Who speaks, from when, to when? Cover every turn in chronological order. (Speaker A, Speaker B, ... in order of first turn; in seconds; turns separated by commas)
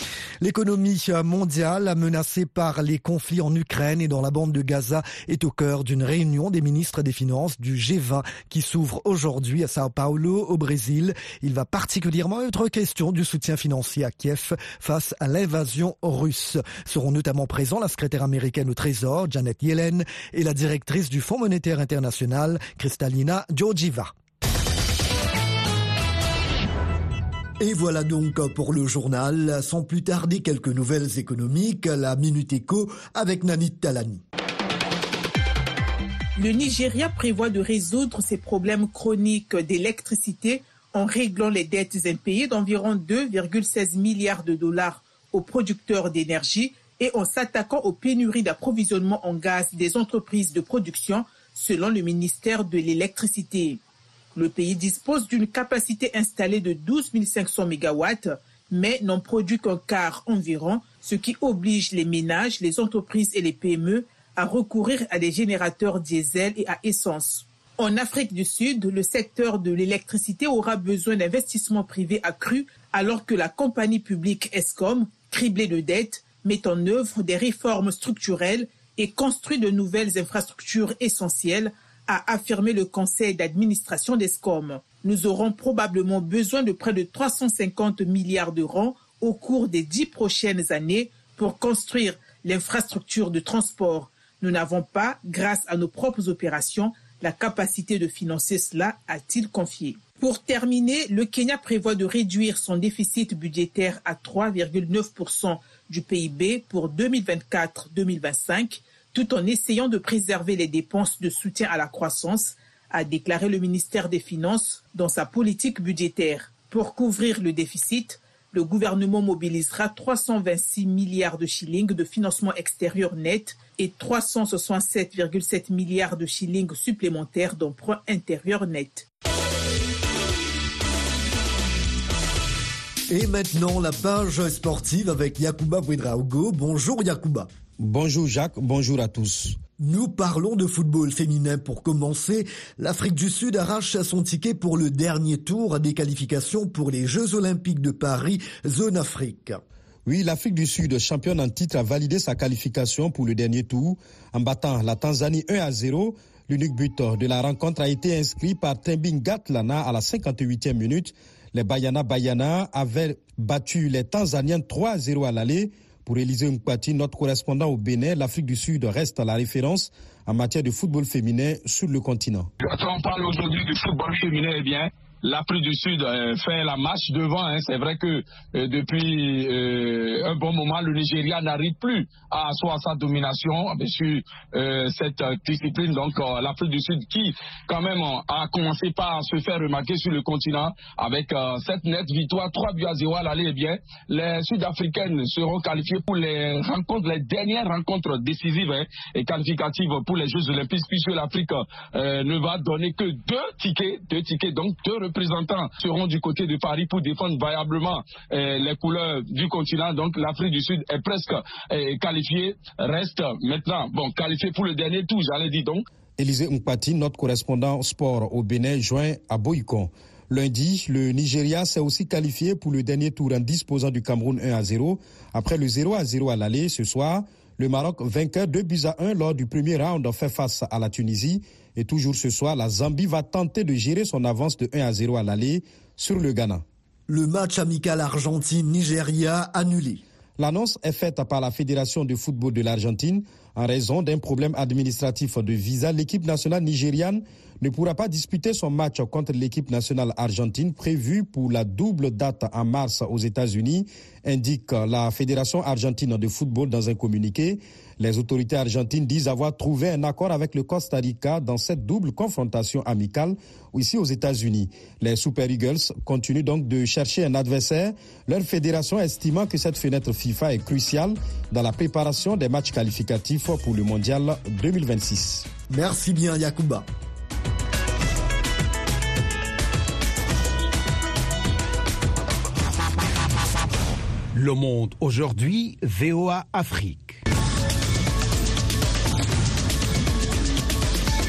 Speaker A: 0.4-24.1, Speaker A: 27.6-34.2, Speaker B: 36.4-53.8, Speaker B: 54.4-129.1, Speaker A: 133.1-137.5, Speaker C: 137.8-139.6, Speaker A: 139.8-149.6, Speaker C: 150.1-172.5, Speaker D: 172.6-215.9, Speaker C: 216.2-236.6, Speaker A: 237.1-240.0, Speaker C: 240.4-275.5, Speaker A: 275.7-276.9, Speaker E: 284.3-287.2